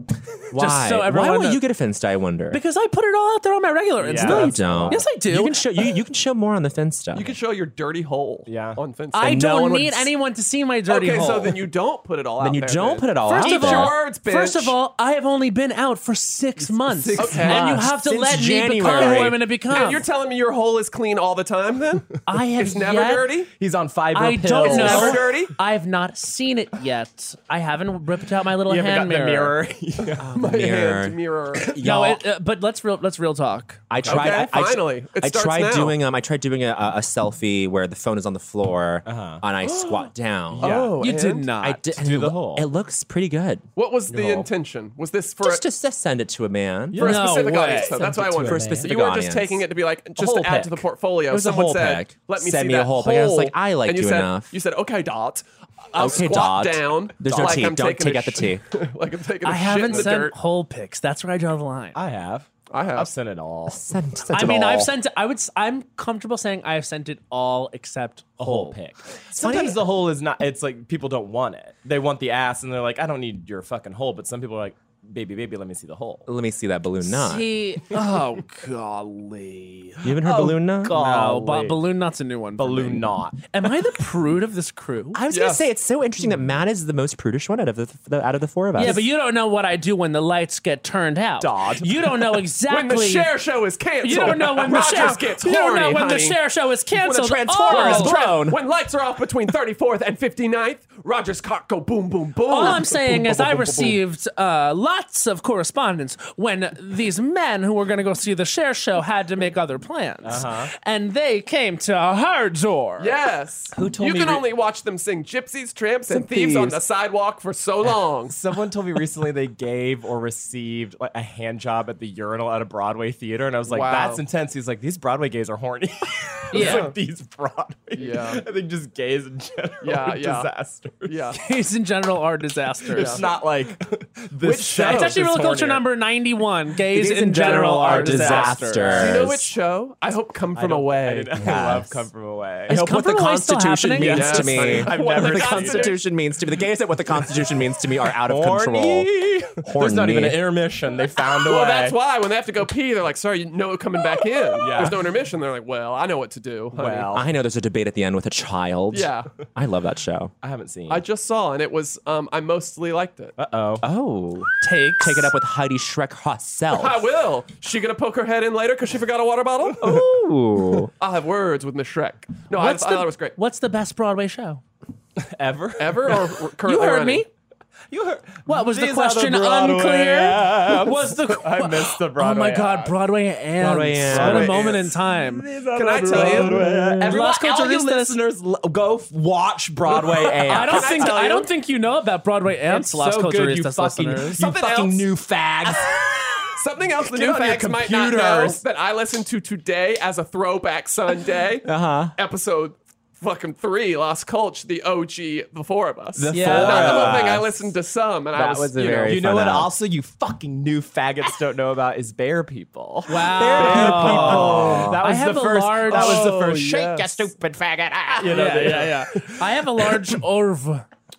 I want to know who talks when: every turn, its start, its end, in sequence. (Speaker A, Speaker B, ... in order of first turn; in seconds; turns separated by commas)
Speaker A: 0.5-2.6, Speaker B: 0.5-1.6, Speaker B: 2.5-5.6, Speaker C: 4.0-5.0, Speaker A: 4.1-7.4, Speaker D: 7.1-9.3, Speaker C: 8.5-8.8, Speaker B: 9.1-11.6, Speaker A: 9.2-10.1, Speaker D: 10.9-14.7, Speaker A: 12.4-13.9, Speaker B: 13.2-20.0, Speaker D: 17.0-17.8, Speaker C: 17.1-17.8, Speaker A: 17.2-19.4, Speaker D: 18.9-23.5, Speaker C: 18.9-19.2, Speaker B: 22.2-23.3, Speaker C: 23.5-25.4, Speaker B: 24.1-29.6, Speaker D: 24.6-25.5, Speaker C: 28.6-30.3, Speaker A: 30.2-32.2, Speaker D: 30.3-31.7, Speaker B: 31.8-33.9, Speaker A: 33.9-40.7, Speaker C: 34.0-34.4, Speaker D: 34.0-36.0, Speaker C: 39.0-41.0, Speaker D: 40.6-41.5, Speaker B: 41.0-41.8, Speaker A: 41.6-43.6, Speaker C: 42.0-42.7, Speaker D: 43.8-45.6, Speaker C: 44.1-44.5, Speaker A: 45.4-47.4, Speaker C: 46.9-49.0, Speaker D: 46.9-60.3, Speaker B: 47.0-48.0, Speaker A: 48.0-49.6, Speaker C: 50.1-50.9, Speaker A: 51.3-54.5, Speaker A: 55.9-58.6, Speaker C: 57.3-57.7, Speaker B: 59.4-62.0, Speaker C: 61.9-63.8, Speaker D: 62.7-63.1, Speaker A: 63.7-64.9, Speaker B: 64.3-68.8, Speaker C: 68.4-76.3, Speaker A: 69.3-69.8, Speaker A: 76.3-77.5, Speaker B: 77.0-80.1, Speaker A: 80.0-81.0, Speaker C: 80.2-81.8, Speaker B: 80.8-85.2, Speaker C: 82.6-83.4, Speaker A: 85.1-89.0, Speaker D: 85.3-85.6, Speaker B: 88.8-93.3, Speaker C: 91.4-92.2, Speaker D: 92.7-96.4, Speaker B: 94.0-98.2, Speaker C: 94.7-95.0, Speaker A: 97.0-98.6, Speaker D: 97.6-103.5, Speaker B: 102.5-113.1, Speaker C: 102.6-104.0, Speaker C: 110.2-110.7, Speaker D: 113.0-118.4, Speaker C: 113.7-114.4, Speaker A: 116.1-116.8, Speaker C: 118.3-131.2, Speaker D: 123.7-124.2, Speaker B: 126.5-126.9, Speaker D: 126.5-127.0, Speaker D: 127.9-128.4, Speaker D: 129.8-130.5, Speaker D: 131.1-131.4, Speaker B: 131.3-133.2, Speaker C: 132.9-135.8, Speaker D: 132.9-133.3, Speaker D: 134.4-135.1, Speaker B: 134.8-138.9, Speaker A: 136.9-139.4, Speaker C: 137.3-139.4, Speaker D: 138.8-141.5, Speaker C: 140.5-142.8, Speaker A: 141.3-142.1, Speaker A: 142.7-150.5, Speaker B: 142.7-144.4, Speaker D: 144.0-145.9, Speaker C: 144.1-145.9, Speaker C: 148.1-152.0, Speaker D: 151.2-157.2, Speaker C: 154.6-155.0, Speaker C: 156.7-157.3, Speaker A: 157.1-160.3, Speaker D: 158.9-159.3, Speaker C: 160.4-161.0, Speaker D: 160.9-163.3, Speaker C: 163.4-163.8, Speaker A: 163.8-167.0, Speaker B: 164.6-165.3, Speaker D: 166.7-169.9, Speaker A: 169.8-170.9, Speaker D: 171.0-173.3, Speaker B: 172.5-174.6, Speaker C: 175.2-176.3, Speaker D: 175.8-177.2, Speaker B: 176.6-177.3, Speaker C: 177.9-182.9, Speaker B: 178.4-185.5, Speaker A: 183.6-184.7, Speaker C: 184.1-191.5, Speaker D: 184.1-184.9, Speaker D: 185.7-186.7, Speaker B: 186.0-188.2, Speaker A: 186.5-187.2, Speaker D: 189.9-191.4, Speaker B: 190.4-194.5, Speaker C: 192.7-198.6, Speaker D: 194.4-195.1, Speaker D: 196.5-209.3, Speaker A: 201.6-202.1, Speaker A: 206.2-207.5, Speaker C: 206.2-207.5, Speaker B: 206.3-207.1, Speaker A: 208.3-209.7, Speaker C: 209.1-220.2, Speaker B: 213.1-216.7, Speaker A: 213.4-215.0, Speaker D: 215.9-216.8, Speaker A: 217.2-218.0, Speaker B: 218.2-220.8